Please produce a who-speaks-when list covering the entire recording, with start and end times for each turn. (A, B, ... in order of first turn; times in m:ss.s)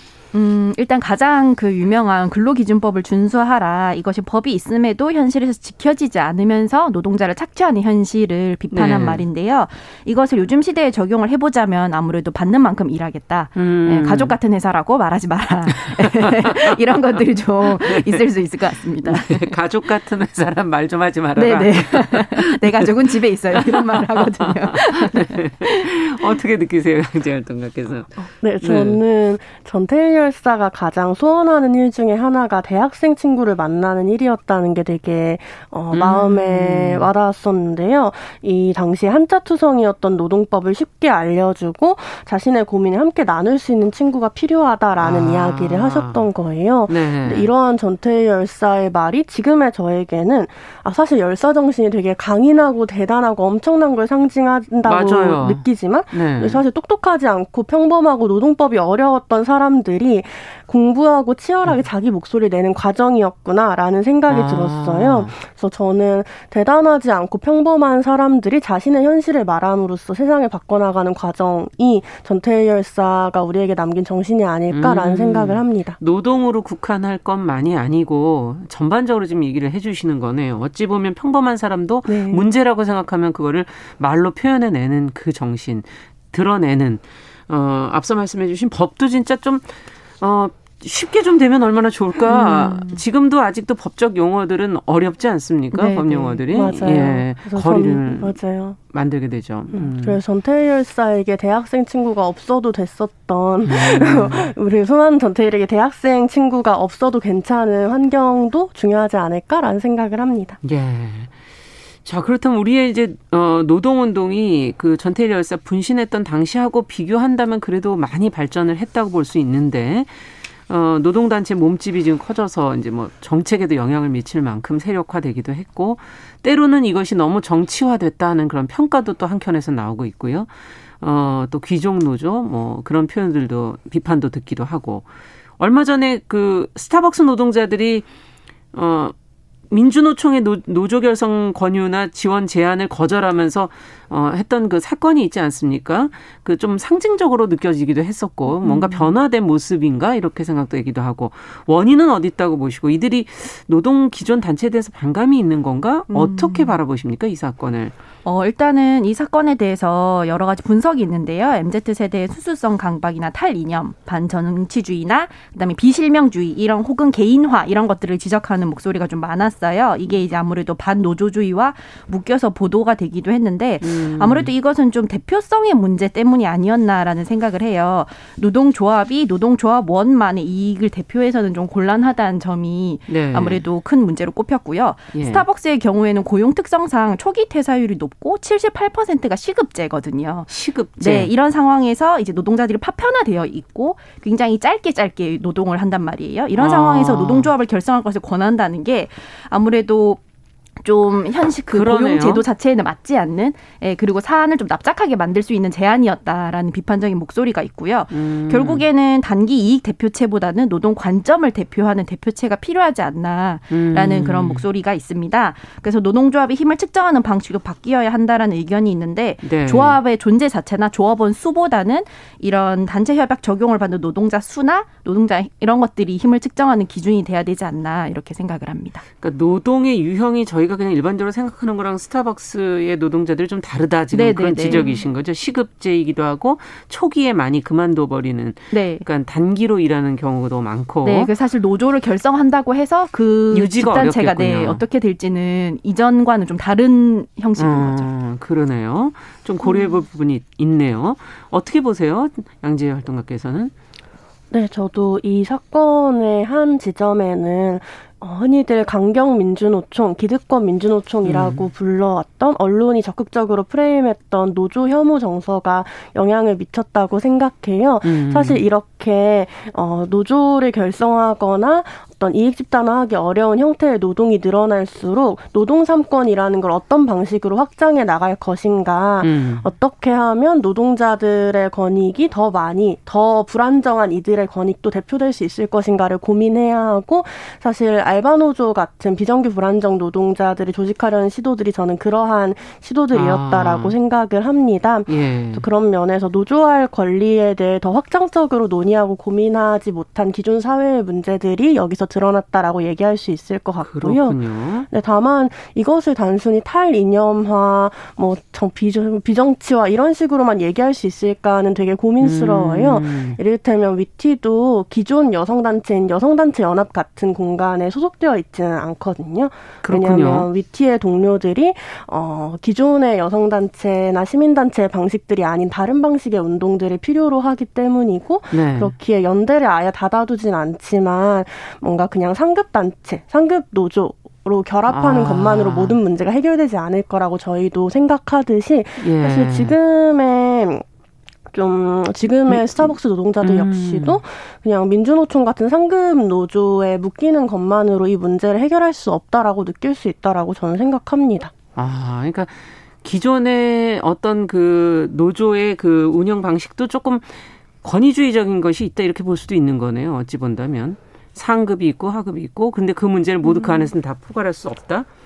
0:00.3-0:19.5 A
0:08.7-0:09.2 B
0:13.6-0:14.3 B
0:15.8-0:16.4 B
0:17.6-0:18.2 B
0:19.0-0:22.8 B
0:21.4-0:25.8 A
0:23.5-0:29.0 B
0:28.3-1:16.0 C
0:35.9-0:37.1 B
0:45.0-0:46.3 B
0:46.9-0:47.5 B
0:54.8-0:56.6 B
1:04.3-1:05.4 B
1:14.7-1:38.4 B
1:22.0-1:22.4 C
1:32.3-1:33.0 A
1:35.7-1:36.4 A
1:36.5-1:38.8 C
1:38.9-1:40.2 B
1:39.7-1:50.6 C
1:43.6-1:44.5 B
1:50.6-1:51.3 B
1:52.0-2:15.0 B
2:15.6-2:18.0 B
2:18.7-2:19.1 B
2:19.7-2:37.9 B
2:28.5-2:29.2 A
2:36.1-2:36.7 A
2:38.2-3:20.2 A
2:53.8-2:54.5 B
3:03.1-3:03.6 B
3:05.1-3:05.4 B
3:10.5-3:11.3 B
3:16.6-3:17.5 B
3:20.8-3:49.0 A
3:21.7-3:22.4 B
3:28.1-3:28.8 B
3:33.7-3:34.6 B
3:39.4-3:40.0 B
3:49.2-4:01.3 B
3:54.1-3:54.9 A
3:58.7-3:59.0 A
4:01.0-4:08.1 A
4:03.5-4:04.8 B
4:07.6-4:13.7 B
4:09.6-4:09.9 A
4:14.5-5:40.8 C
4:21.2-4:21.7 B
4:28.0-4:28.6 B
4:39.2-4:39.6 B
4:53.1-4:53.9 B
4:55.1-4:55.6 B
5:03.8-5:04.9 B
5:12.2-5:13.4 B
5:19.8-5:20.5 B
5:28.5-5:28.9 B
5:34.9-5:36.0 B
5:39.0-5:39.8 B
5:41.5-5:51.5 C
5:42.5-5:44.2 B
5:51.8-6:05.1 B
6:03.5-6:03.9 C